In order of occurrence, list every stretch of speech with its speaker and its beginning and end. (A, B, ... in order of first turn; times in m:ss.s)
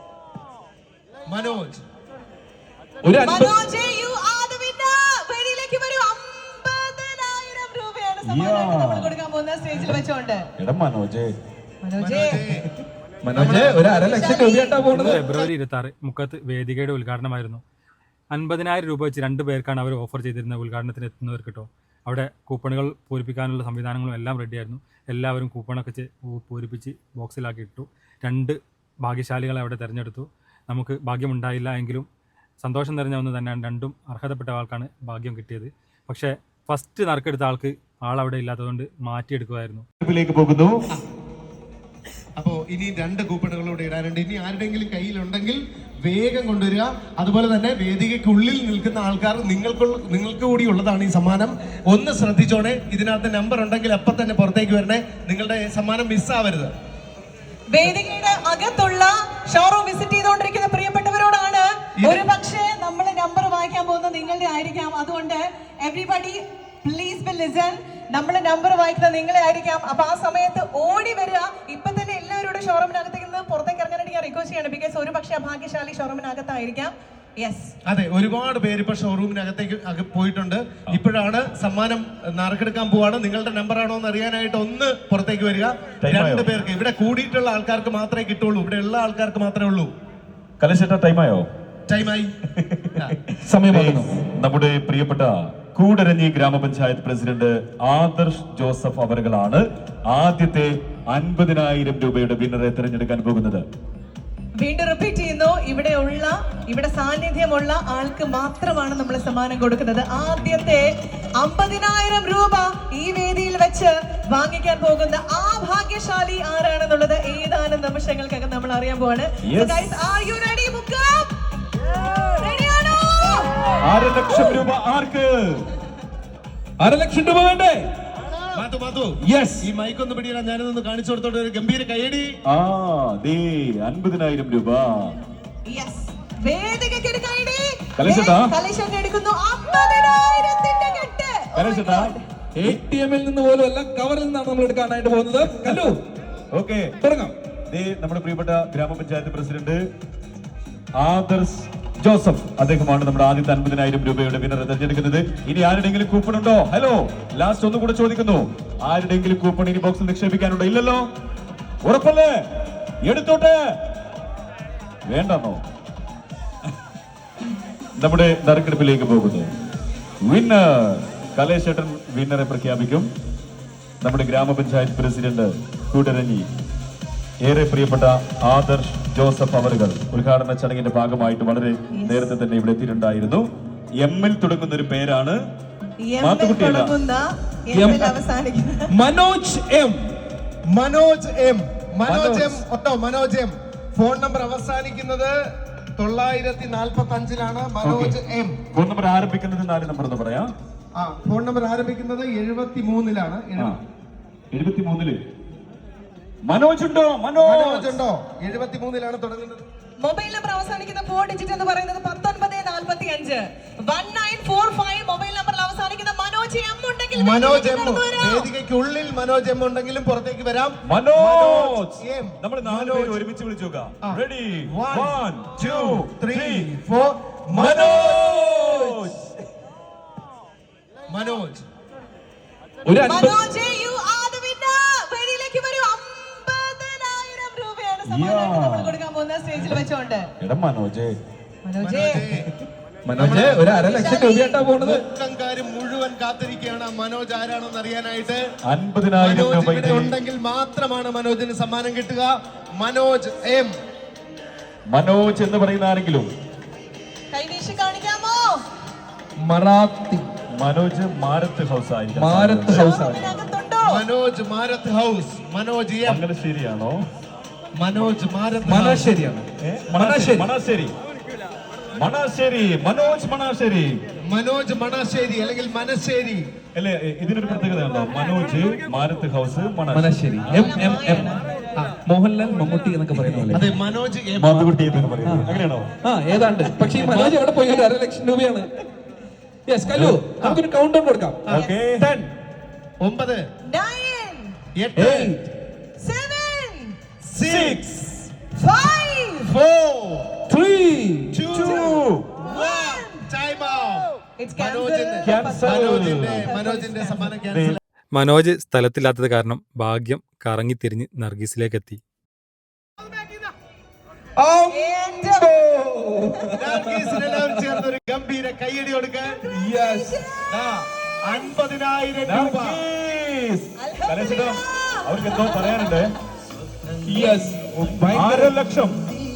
0:01.3-0:01.8 A
0:03.0-0:03.6 B
0:03.2-0:10.5 C
0:08.2-0:09.1 D
0:10.6-0:11.3 D
0:11.8-0:12.4 C
0:12.0-0:12.7 A
0:13.2-0:15.2 B
0:13.3-0:13.9 A
0:13.4-0:15.1 C
0:14.9-0:17.6 E
0:15.1-0:15.5 A
0:18.3-0:32.1 E
0:32.6-0:39.8 E
0:40.0-0:40.9 D
0:42.4-0:56.7 A
0:57.7-1:17.7 C
1:02.0-1:02.2 A
1:17.9-1:29.9 A
1:26.0-1:26.5 D
1:30.6-1:31.5 D
1:31.9-1:32.3 A
1:32.6-1:33.2 D
1:33.4-1:34.1 B
1:33.7-1:43.6 D
1:44.6-2:01.3 C
1:59.4-1:59.9 D
2:02.4-2:03.7 C
2:03.8-2:05.7 D
2:06.8-2:07.9 B
2:08.6-2:12.3 A
2:09.2-2:09.6 B
2:12.5-2:15.2 D
2:15.7-2:22.2 C
2:18.0-2:18.5 D
2:21.5-2:22.1 D
2:22.6-2:26.0 B
2:26.5-2:26.9 D
2:27.0-2:27.3 B
2:27.7-2:29.8 D
2:31.0-2:41.0 D
2:41.8-2:43.8 D
2:45.1-2:45.6 D
2:48.0-2:49.5 D
2:50.2-2:53.1 D
2:54.0-2:56.5 D
2:57.4-3:03.4 D
3:01.9-3:02.3 C
3:04.0-3:05.4 D
3:06.0-3:08.9 C
3:06.2-3:06.9 D
3:07.7-3:08.2 B
3:08.9-3:10.1 B
3:10.7-3:15.3 A
3:12.0-3:12.6 B
3:16.0-3:18.6 A
3:17.8-3:18.2 D
3:18.7-3:20.5 D
3:21.0-3:23.7 A
3:24.5-3:25.2 D
3:26.4-3:28.0 D
3:27.4-3:29.6 A
3:30.0-3:38.5 C
3:37.1-3:43.2 A
3:40.9-3:46.7 D
3:44.0-3:48.3 A
3:47.5-3:49.3 D
3:51.1-3:51.6 A
3:52.8-3:53.4 B
3:53.0-4:00.3 C
3:58.1-3:59.0 D
4:00.4-4:01.1 D
4:01.6-4:02.2 C
4:01.8-4:02.5 A
4:03.0-4:05.0 B
4:03.2-4:03.7 A
4:03.6-4:04.6 C
4:04.8-4:08.4 A
4:08.6-4:10.1 D
4:09.2-4:13.7 A
4:14.9-4:16.3 D
4:17.3-4:18.6 C
4:19.4-4:20.3 B
4:20.6-4:22.9 D
4:22.1-4:23.3 B
4:22.7-4:24.0 C
4:23.8-4:26.2 A
4:26.0-4:27.0 D
4:27.7-4:29.1 A
4:28.6-4:30.4 B
4:29.6-4:30.9 D
4:31.9-4:34.0 D
4:34.3-4:36.4 A
4:36.7-4:40.1 D
4:39.9-4:41.3 B
4:40.5-4:41.4 C
4:42.0-4:43.7 B
4:43.5-4:44.7 A
4:44.4-4:45.9 D
4:45.2-4:45.5 B
4:46.0-4:48.7 B
4:47.0-4:47.3 D
4:49.7-4:51.4 B
4:49.9-4:50.2 D
4:51.5-4:52.1 D
4:52.0-4:52.3 B
4:53.0-4:53.4 A
4:53.6-4:54.5 C
4:54.8-4:55.4 A
4:55.0-4:55.4 B
4:56.0-4:56.9 C
4:57.3-4:57.8 A
4:57.4-4:58.0 D
4:58.6-4:59.5 C
4:59.5-5:00.3 A
5:00.5-5:01.4 B
5:01.3-5:07.8 A
5:01.5-5:02.3 D
5:01.6-5:01.9 C
5:02.4-5:03.2 C
5:04.4-5:07.3 C
5:05.2-5:06.5 D
5:07.5-5:07.8 D
5:08.1-5:12.0 E
5:14.4-5:17.8 B
5:14.7-5:15.5 C
5:16.6-5:19.4 A
5:19.2-5:20.6 C
5:19.5-5:20.2 B
5:20.5-5:22.8 A
5:21.3-5:21.5 C
5:22.2-5:26.1 D
5:23.8-5:26.0 C
5:27.1-5:28.5 B
5:28.1-5:29.0 D